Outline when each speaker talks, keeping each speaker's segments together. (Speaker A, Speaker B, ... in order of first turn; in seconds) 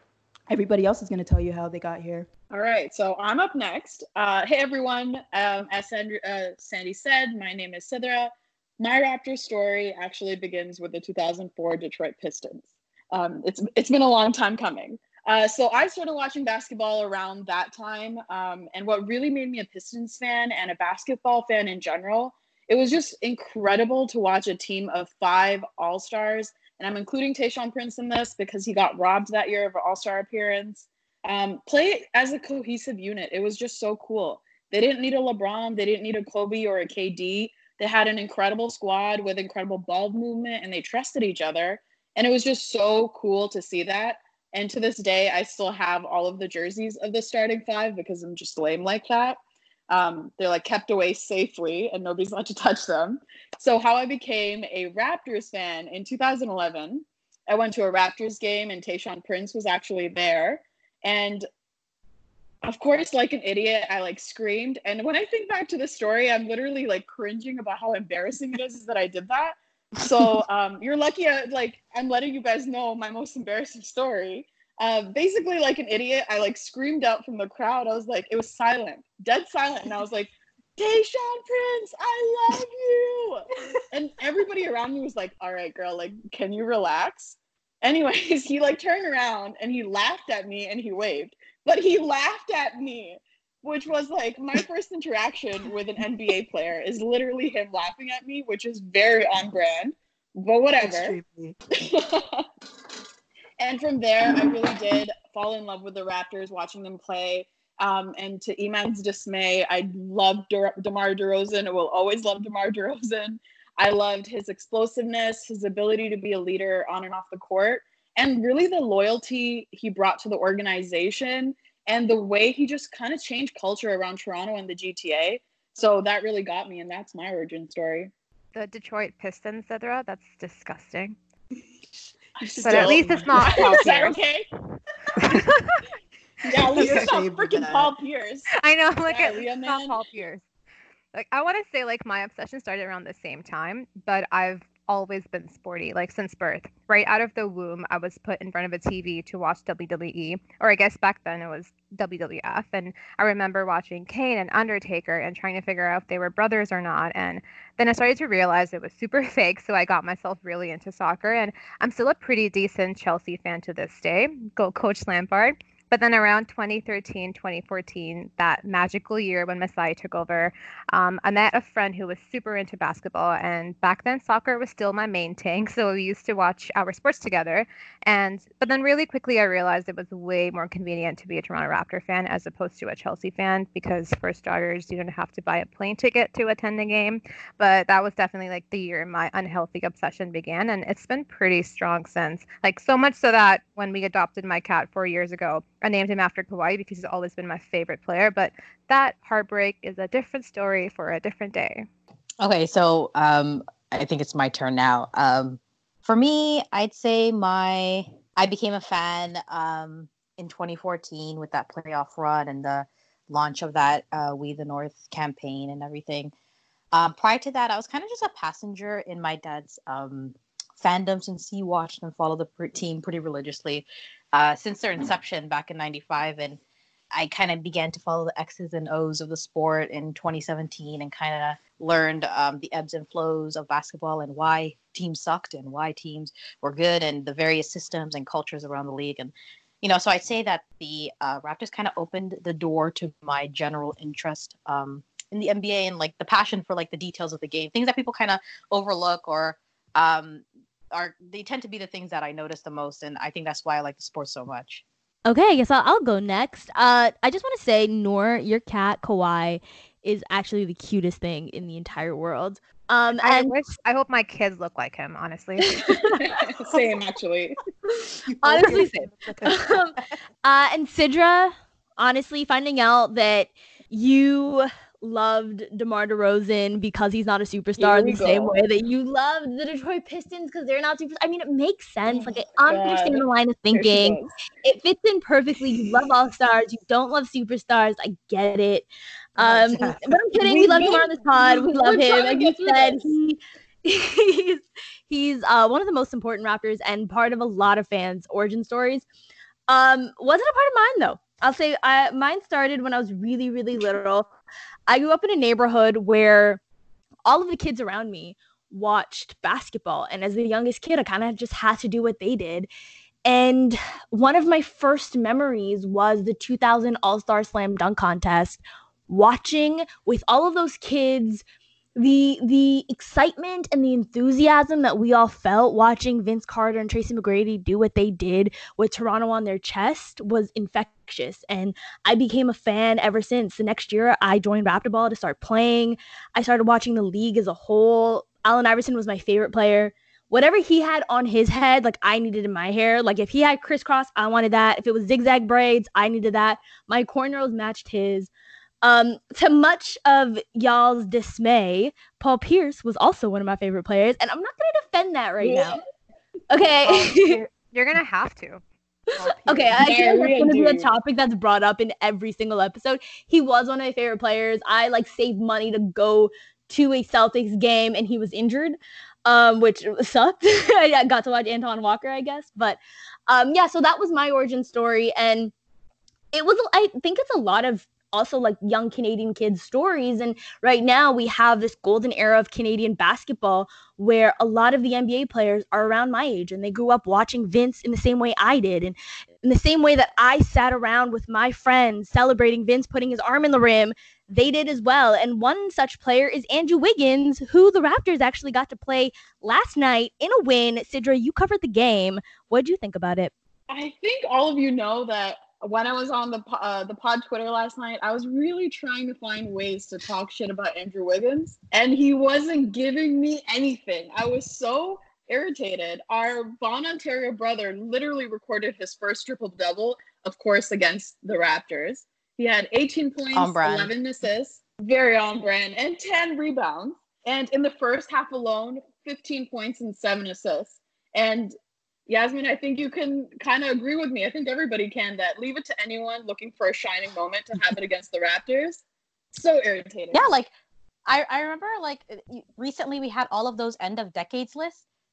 Speaker A: 0.5-2.3, 100.8-101.6, 132.4-134.0, 135.1-135.4, 136.6-137.9, 268.2-270.0, 289.4-290.2, 356.8-357.5, 359.2-359.8
Speaker B: 2.5-61.5, 62.6-101.2, 101.8-102.5, 103.6-128.1, 132.4-134.5, 136.4-138.5, 139.1-140.0, 266.2-267.6, 277.8-278.6, 282.1-284.3, 290.4-293.1, 355.4-355.8, 359.7-360.9, 403.7-431.6, 432.1-440.3
Speaker C: 128.5-131.2, 132.6-134.2, 135.2-135.8, 136.8-137.1, 138.5-140.4, 141.1-201.9, 263.2-265.8, 357.7-358.6
Speaker D: 202.4-216.3, 216.9-226.6, 227.1-254.8, 423.3-423.9, 440.1-440.5, 441.1-444.8
Speaker E: 255.2-263.5, 265.7-266.2, 268.4-288.9, 289.4-299.0, 299.7-304.3, 304.9-306.6, 307.2-312.7, 313.2-321.4, 321.9-348.3, 348.8-355.8, 356.5-357.4, 359.3-375.5, 376.3-403.3